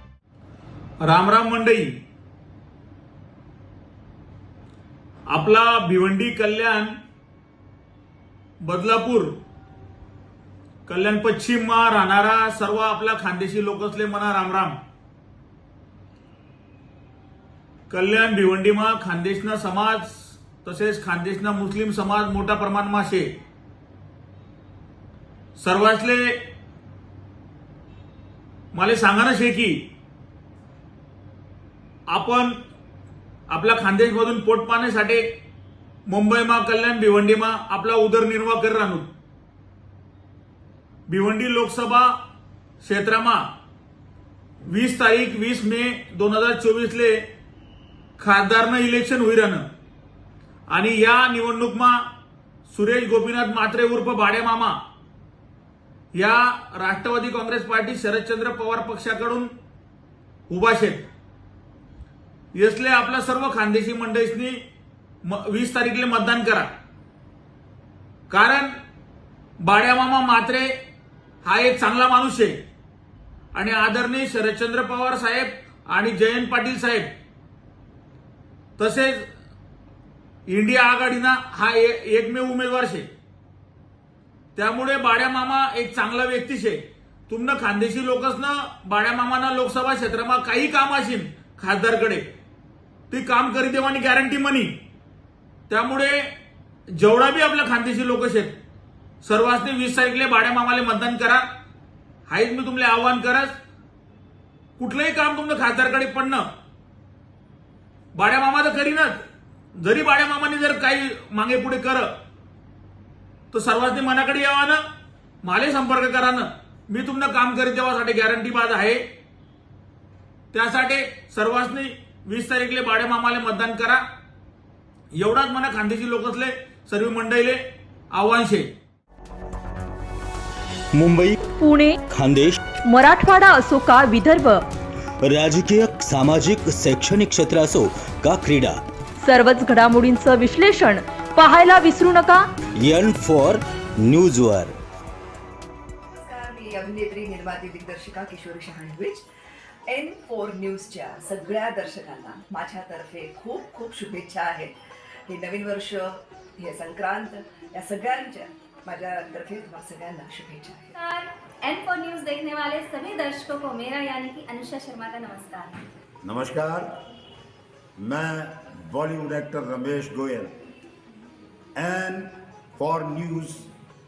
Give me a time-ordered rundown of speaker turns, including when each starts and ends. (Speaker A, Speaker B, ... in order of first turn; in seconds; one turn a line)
Speaker A: 1.0-1.9
Speaker A: 5.3-7.0
Speaker A: 8.7-9.3
Speaker A: 10.9-14.8
Speaker A: 17.9-23.4
Speaker A: 25.6-26.3
Speaker A: 28.7-29.8
Speaker A: 32.1-32.5
Speaker A: 33.5-35.2
Speaker A: 36.1-39.1
Speaker A: 41.1-42.1
Speaker A: 42.8-43.4
Speaker A: 44.7-47.2
Speaker A: 48.2-49.6
Speaker A: 50.7-52.0
Speaker A: 52.7-54.8
Speaker A: 56.2-59.5
Speaker A: 60.5-61.1
Speaker A: 62.6-64.6
Speaker A: 65.3-66.7
Speaker A: 68.3-68.7
Speaker A: 69.6-70.7
Speaker A: 71.4-72.6
Speaker A: 73.5-77.1
Speaker A: 78.8-79.2
Speaker A: 80.5-83.1
Speaker A: 84.6-92.2
Speaker A: 93.1-94.7
Speaker A: 95.7-96.2
Speaker A: 97.0-98.5
Speaker A: 99.2-101.5
Speaker A: 102.3-103.5
Speaker A: 104.8-106.5
Speaker A: 108.2-109.2
Speaker A: 109.8-112.1
Speaker A: 113.5-114.8
Speaker A: 115.4-119.0
Speaker A: 120.5-124.0
Speaker A: 125.2-127.6
Speaker A: 128.1-128.7
Speaker B: 130.9-131.4
Speaker C: 131.6-132.0
Speaker B: 132.1-132.6
Speaker C: 132.9-134.6
Speaker B: 135.2-138.8
Speaker C: 139.3-142.4
Speaker B: 142.8-144.8
Speaker D: 146.2-149.3
Speaker D: 149.9-154.8
Speaker D: 155.3-160.9
Speaker E: 161.0-165.8
Speaker F: 166.2-166.9
Speaker F: 168.0-170.5
Speaker F: 171.8-173.7